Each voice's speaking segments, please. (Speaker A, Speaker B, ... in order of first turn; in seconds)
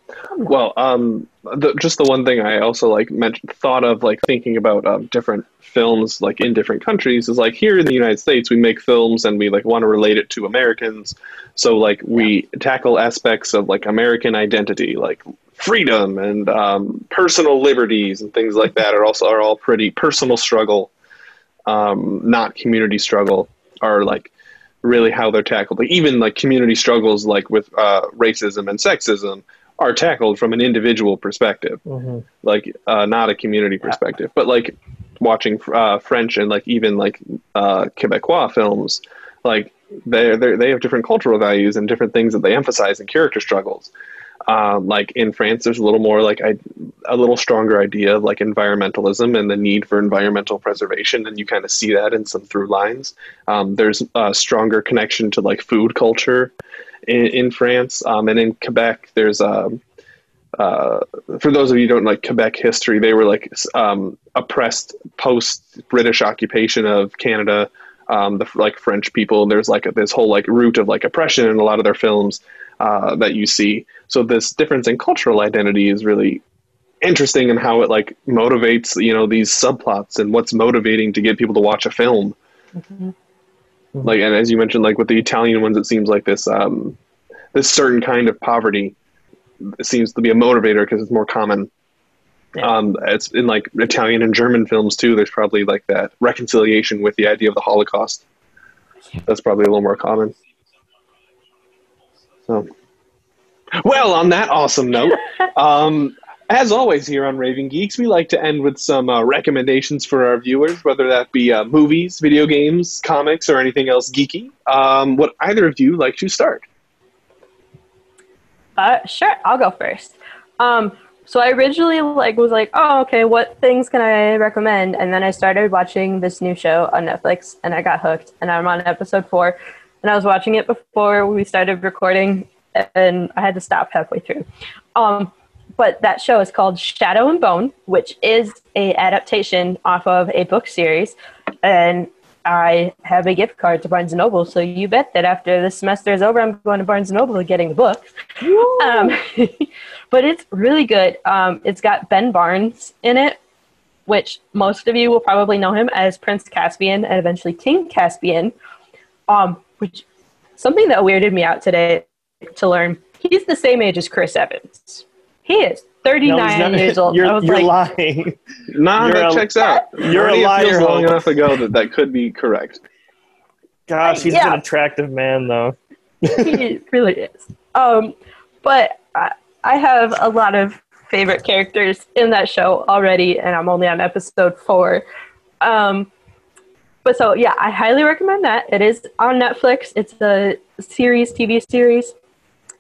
Speaker A: 0.4-20.9, 21.7-24.3, 24.8-31.8, 32.4-43.9, 44.5-56.5, 57.1-59.8, 60.6-76.4, 77.0-82.4, 84.0-87.0, 87.5-89.0, 89.8-91.7, 92.6-98.2, 99.2-100.3, 103.8-116.7, 168.7-172.8
Speaker B: 31.9-32.2, 148.4-149.2, 166.2-168.4, 169.0-171.3, 173.9-176.6
Speaker C: 82.8-83.1, 118.8-148.1, 148.6-153.4, 154.1-158.5, 159.3-160.0, 160.6-167.7, 169.6-169.9, 174.0-174.6, 176.3-185.0, 185.6-186.1, 187.1-192.1